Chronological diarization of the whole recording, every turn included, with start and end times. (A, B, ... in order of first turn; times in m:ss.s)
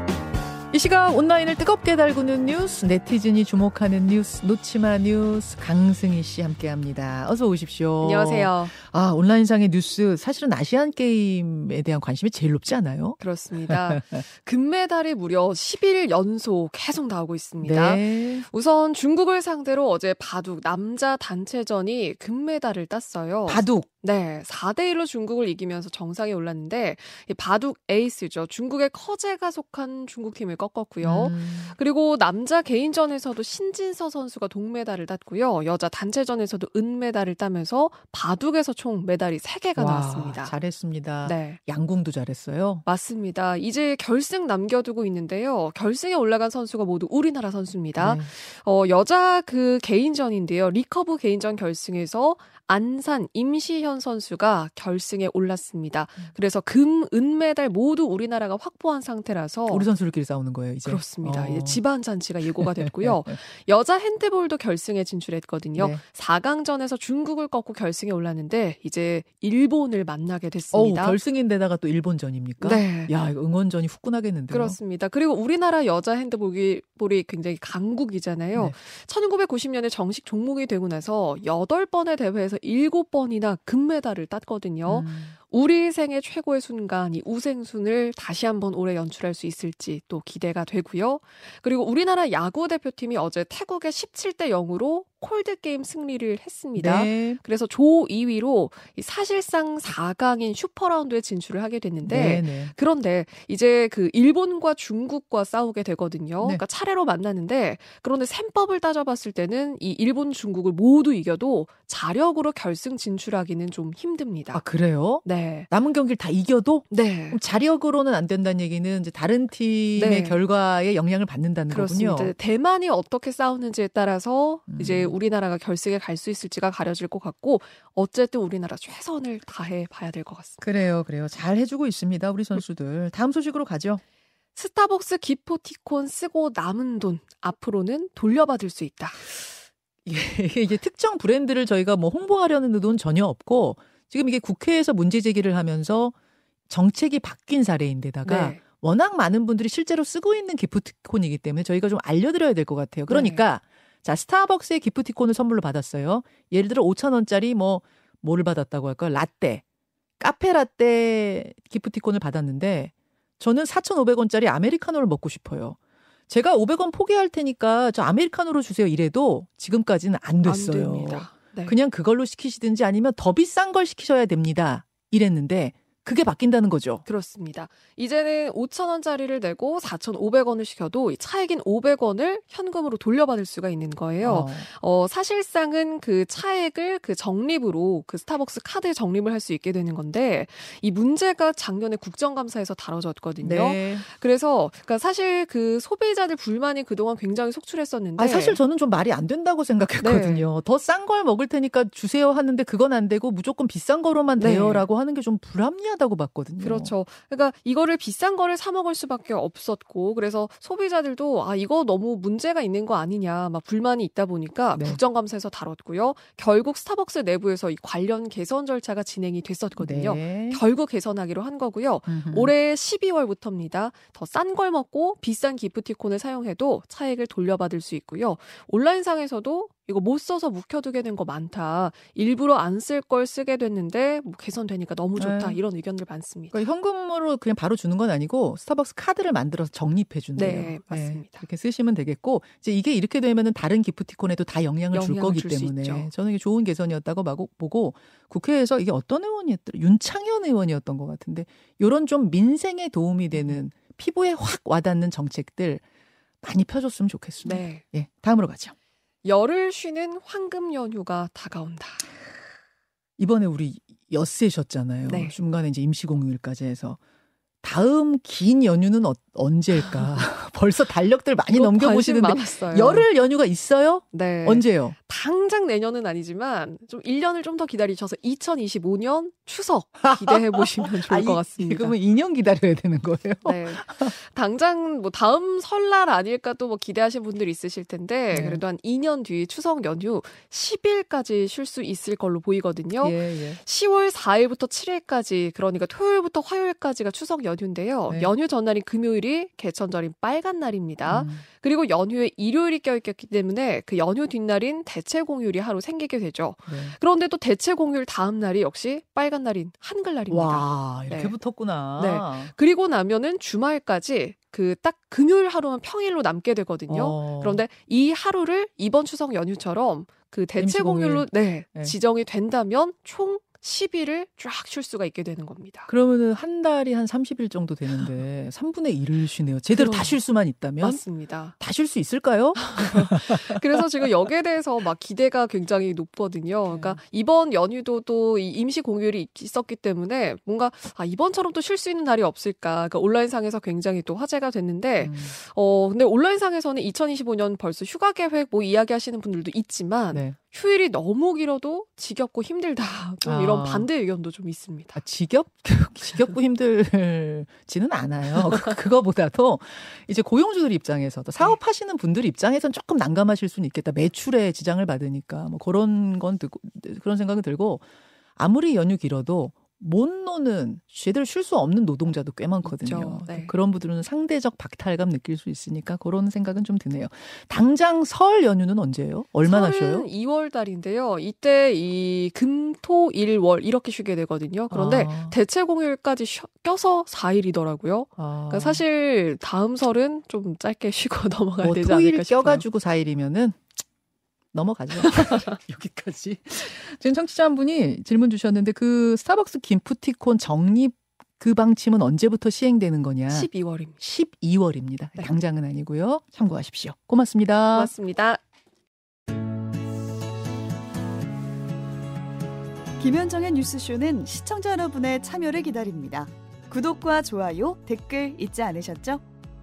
0:00.7-0:14.2 A
0:08.0-0:08.7 B
0:13.2-0:40.5 B
0:17.6-0:18.4 A
0:23.4-0:23.9 A
0:31.0-0:31.8 A
0:39.8-0:42.8 A
0:41.2-0:41.6 B
0:42.8-0:59.9 B
0:48.0-0:48.3 A
0:59.7-1:01.8 A
1:00.8-1:11.2 B
1:02.4-1:03.4 A
1:05.8-1:06.0 A
1:10.7-1:14.8 A
1:12.6-1:13.1 B
1:14.5-1:54.6 B
1:24.8-1:25.3 A
1:36.8-1:37.4 A
1:42.0-1:42.7 A
1:54.5-2:02.3 A
1:55.2-1:55.7 B
1:56.9-1:57.4 B
1:59.9-2:00.4 B
2:01.7-2:10.6 B
2:04.7-2:05.1 A
2:10.6-2:14.0 A
2:14.5-2:19.5 B
2:20.0-2:26.1 A
2:26.7-2:39.6 A
2:28.2-2:28.6 B
2:33.1-2:33.4 B
2:40.2-2:45.8 A
2:46.3-2:57.0 A
2:50.4-2:51.8 B
2:57.0-3:18.6 B
3:04.2-3:04.7 A
3:13.4-3:14.0 A
3:18.2-3:26.9 A
3:20.0-3:20.5 B
3:24.4-3:24.9 B
3:26.6-3:56.6 B
3:39.8-3:40.6 A
3:42.1-3:42.5 A
3:55.2-3:55.6 A
3:56.5-4:15.8 A
4:00.3-4:01.4 B
4:04.9-4:06.1 B
4:13.3-4:13.6 B
4:16.4-4:18.7 A
4:17.4-4:17.8 B
4:19.2-4:22.1 B
4:23.2-4:27.0 A
4:25.1-4:25.4 B
4:27.6-4:35.0 A
4:31.4-4:33.1 B
4:34.1-4:42.0 B
4:40.0-4:44.1 A
4:43.4-5:11.4 B
4:48.3-4:48.6 A
4:53.0-4:53.6 A
5:01.0-5:01.4 A
5:06.7-5:07.0 A
5:10.3-5:12.5 A
5:12.0-5:25.9 B
5:16.9-5:17.6 A
5:20.6-5:21.9 A
5:25.9-5:31.0 A
5:29.7-5:30.2 B
5:30.8-5:31.6 B
5:31.6-5:33.7 A
5:32.5-5:55.0 B
5:36.7-5:37.0 A
5:45.0-5:45.4 A
5:50.1-5:50.4 A
5:53.2-5:53.9 A
5:54.9-6:07.8 A
6:08.4-6:20.0 A
6:12.6-6:13.5 B
6:19.4-6:32.6 B
6:24.7-6:25.4 A
6:28.2-6:28.8 A
6:31.6-6:33.6 A
6:34.5-6:47.9 A
6:43.3-6:44.0 B
6:47.7-6:48.4 B
6:53.0-6:59.2 C